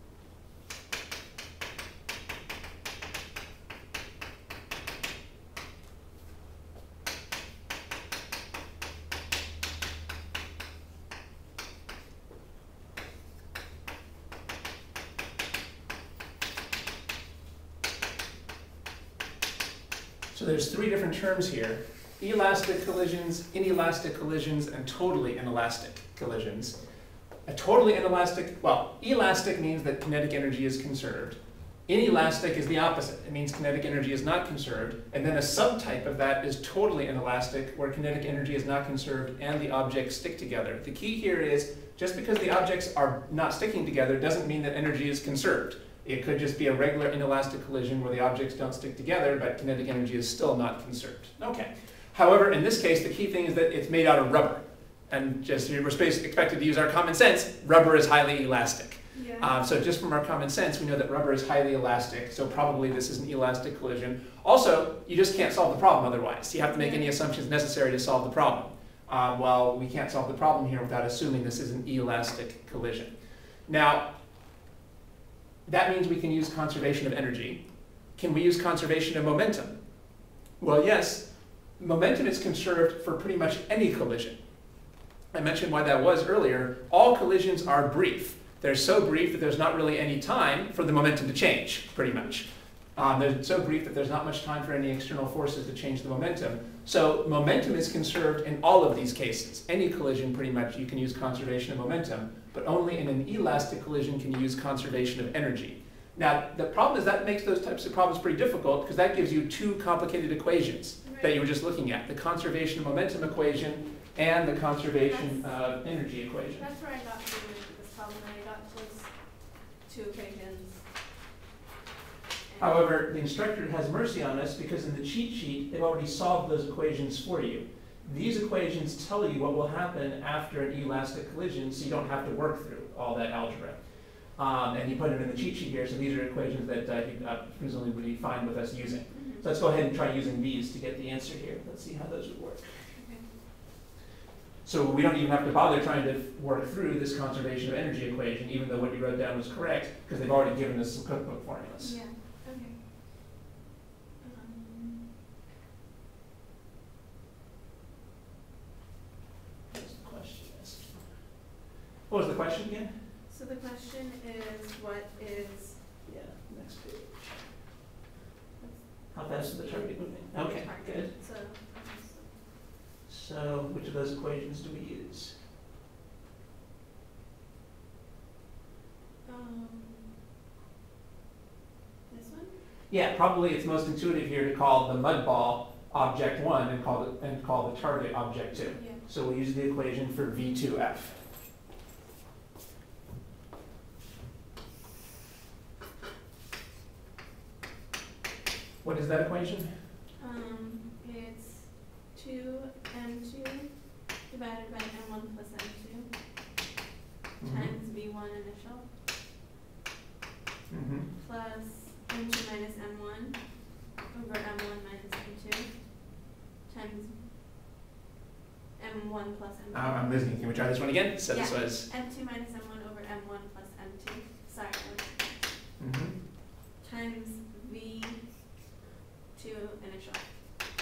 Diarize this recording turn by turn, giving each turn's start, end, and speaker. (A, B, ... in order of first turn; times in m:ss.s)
0:20.3-0:26.8 A
0:27.4-1:14.1 A
0:59.1-0:59.5 B
1:06.6-1:07.2 B
1:15.6-1:24.6 A
1:25.3-1:56.7 A
1:32.0-1:32.4 B
1:51.0-1:51.4 B
1:55.0-1:55.7 B
1:56.5-2:00.8 B
2:02.5-2:02.8 B
2:02.6-2:22.7 A
2:19.1-2:19.4 B
2:22.9-2:23.3 B
2:24.6-2:32.1 A
2:31.8-2:32.8 B
2:34.2-2:35.1 B
2:39.7-2:41.2 A
2:42.1-2:43.0 A
2:43.3-2:45.9 B
2:46.0-2:47.5 A
2:48.6-2:52.4 B
2:49.1-2:51.1 A
2:53.0-2:55.4 A
2:59.2-3:00.1 B
3:02.1-3:02.6 B
3:02.9-3:11.2 A
3:08.5-3:09.0 B
3:18.8-3:19.7 A
3:20.2-3:26.1 B
3:27.4-3:27.7 A
3:27.4-3:28.9 B
3:30.7-3:31.1 A
3:31.1-3:37.2 B
3:38.8-3:40.1 B
3:39.7-3:41.9 A
3:41.3-3:45.6 B
3:45.8-3:46.2 A
3:46.8-3:48.7 B
3:49.3-3:50.3 B